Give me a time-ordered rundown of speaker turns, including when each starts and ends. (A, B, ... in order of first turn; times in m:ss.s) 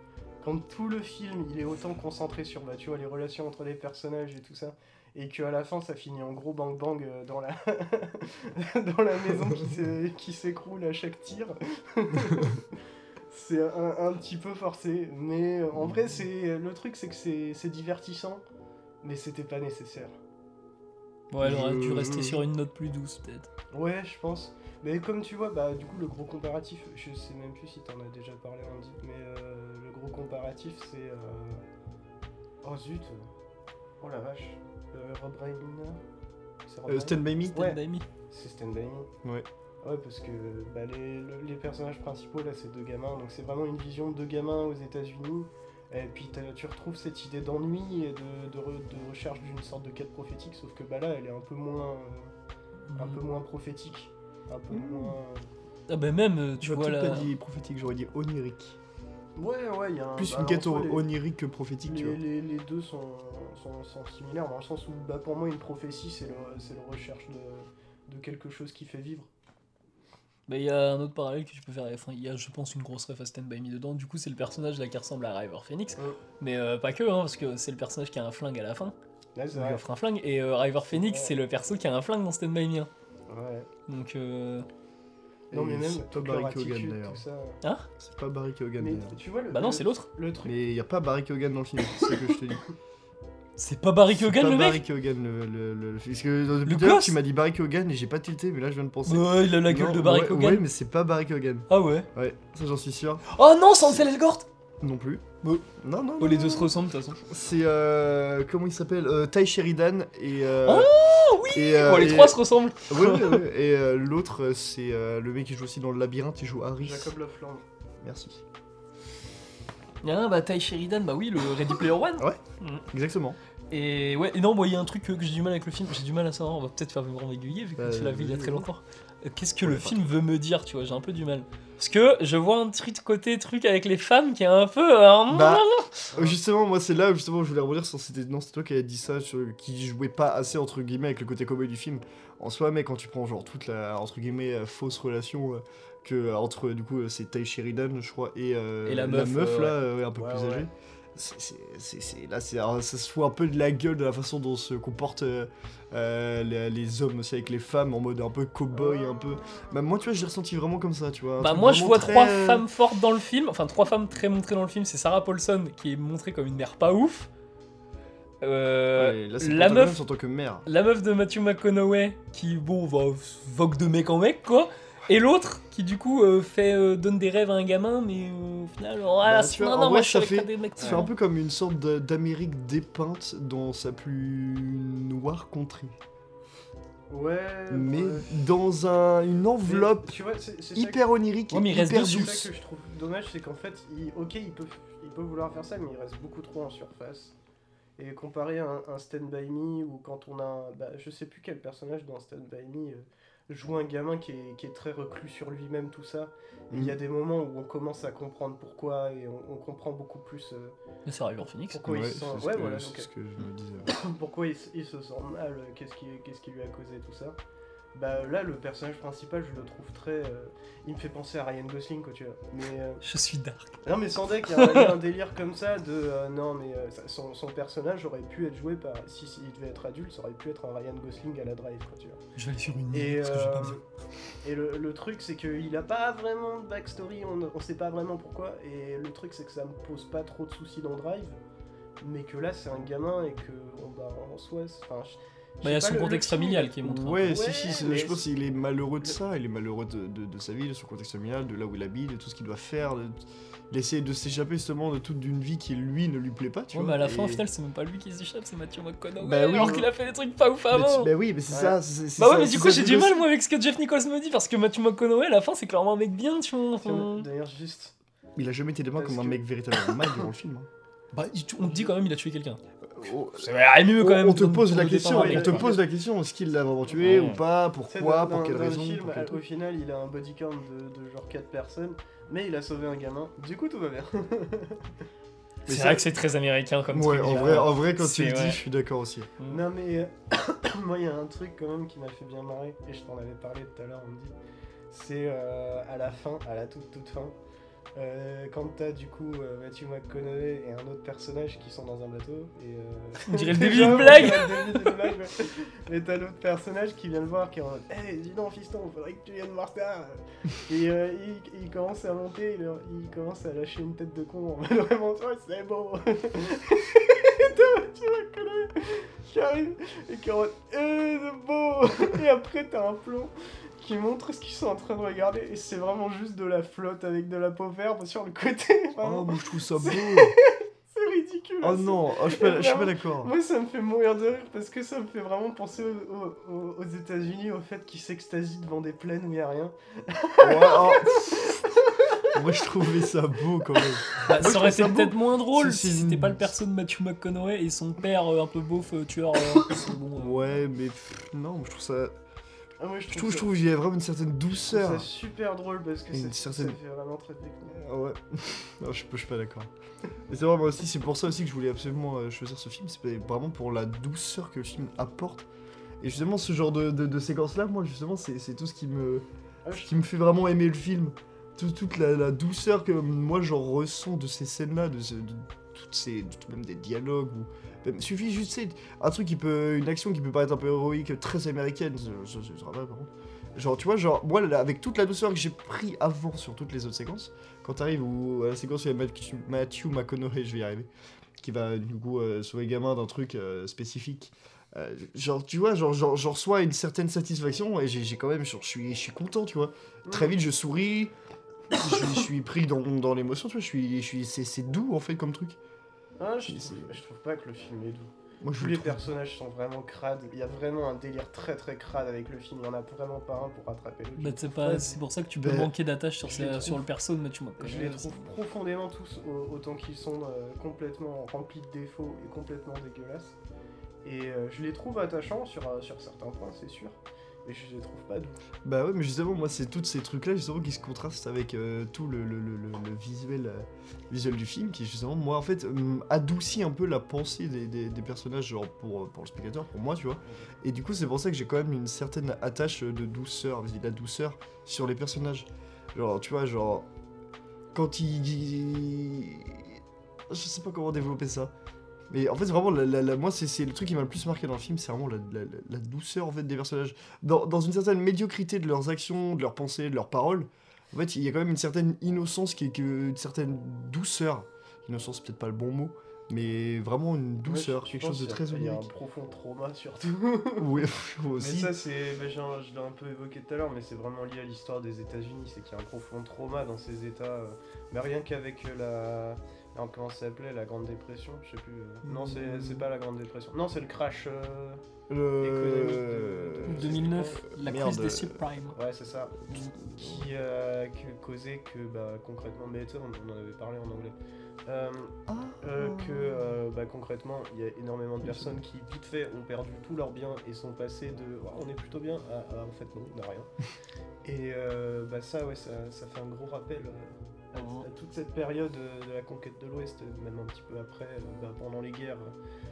0:00.4-0:12.6 A
0:13.3-0:18.4 A
0:19.0-0:20.1 A
0:21.3-0:23.5 B
0:21.4-0:22.4 C
0:23.7-0:31.6 A
0:32.6-0:33.3 A
0:34.0-0:36.0 A
0:36.6-0:39.1 A
0:36.9-0:37.6 C
0:37.5-0:38.1 B
0:39.8-0:52.3 A
0:52.9-0:53.2 B
0:53.0-0:55.5 A
0:54.7-0:55.2 C
0:55.9-0:57.3 B
0:56.6-0:58.8 C
0:59.4-1:01.1 A
1:00.2-1:02.2 C
1:01.8-1:09.3 A
1:10.5-1:19.0 B
1:19.3-1:19.8 A
1:19.5-1:22.9 B
1:20.9-1:21.3 A
1:23.3-1:23.7 A
1:23.9-1:24.7 B
1:25.5-1:27.2 C
1:25.5-1:27.6 A
1:27.6-1:27.9 B
1:28.0-1:29.2 C
1:28.8-1:30.5 A
1:29.5-1:30.1 B
1:30.4-1:32.6 C
1:33.6-1:34.8 B
1:34.1-1:43.2 C
1:36.6-1:37.2 B
1:39.0-1:40.6 B
1:41.7-1:42.1 B
1:43.2-1:44.5 B
1:44.8-1:45.2 C
1:45.8-1:57.1 C
1:46.2-1:47.2 B
1:50.6-1:53.4 B
1:56.8-1:57.6 A
1:58.0-1:58.4 C
2:00.0-2:02.9 B
2:02.2-2:03.4 C
2:03.7-2:16.1 B
2:07.8-2:08.7 C
2:09.6-2:10.0 C
2:15.3-2:42.6 C
2:28.8-2:29.8 B
2:30.2-2:30.7 A
2:38.7-2:39.9 A
2:41.4-2:47.3 B
2:48.4-2:50.0 B
2:49.0-2:50.6 C
2:50.6-3:01.1 B
2:59.2-3:06.0 C
3:00.8-3:01.0 A
3:07.1-3:08.3 A
3:07.7-3:10.2 C
3:09.6-3:11.0 A
3:10.7-3:12.5 C
3:11.5-3:12.4 B
3:11.9-3:17.3 A
3:18.0-3:30.8 A
3:26.7-3:27.0 C
3:31.0-3:31.8 B
3:31.7-3:33.1 A
3:31.8-3:33.9 C
3:33.9-3:37.4 A
3:37.9-3:43.0 A
3:43.0-3:43.8 B
3:43.8-3:52.2 A
3:44.5-3:44.9 B
3:52.4-3:53.8 B
3:52.9-3:53.8 A
3:54.4-4:01.4 A
4:02.0-4:08.2 A
4:05.6-4:07.3 B
4:06.8-4:13.2 C
4:13.7-4:17.4 C
4:16.7-4:21.1 B
4:19.2-4:19.9 C
4:20.7-4:23.2 C
4:21.5-4:21.8 A
4:22.2-4:27.3 B
4:26.8-4:27.9 A
4:28.4-4:30.7 C
4:29.0-4:29.4 A
4:31.1-4:32.6 B
4:31.6-4:31.9 A
4:32.9-4:39.4 C
4:33.3-4:35.7 B
4:35.0-4:35.8 A
4:37.0-4:37.4 B
4:37.9-4:44.9 A
4:45.6-4:46.0 C
4:45.6-4:48.6 B
4:46.9-4:49.3 C
4:49.5-4:54.4 A
4:54.9-4:57.4 A
4:57.9-5:42.4 A
5:03.2-5:05.1 B
5:29.0-5:30.4 C
5:31.6-5:33.3 C
5:40.4-5:41.6 C
5:42.3-5:46.5 C
5:44.2-5:50.6 B
5:50.2-5:52.1 C
5:52.8-5:53.5 A
5:53.1-5:55.1 C
5:54.7-5:57.8 A
5:56.1-5:56.8 C
5:57.7-5:59.7 C
6:00.3-6:05.4 C
6:06.0-6:41.1 C
6:09.6-6:10.0 A
6:40.0-6:40.4 A
6:41.7-6:45.6 C
6:46.2-6:55.0 A
6:46.4-6:47.0 C
6:48.4-6:49.1 C
6:54.2-6:58.2 B
6:55.4-6:55.7 C
6:56.3-6:56.8 A
6:57.6-7:03.4 A
7:04.0-7:08.4 A
7:08.6-7:26.9 C
7:27.7-7:31.5 C
7:32.1-7:48.9 C
7:47.4-7:50.8 A
7:50.6-7:51.8 C
7:51.4-8:04.8 A
8:02.0-8:02.9 C
8:05.1-8:08.4 C
8:05.4-8:07.4 A
8:06.7-8:08.8 B
8:08.7-8:14.1 A
8:09.5-8:10.3 C
8:14.6-8:23.5 A
8:15.3-8:16.6 C
8:24.2-8:32.3 A
8:27.5-8:27.9 B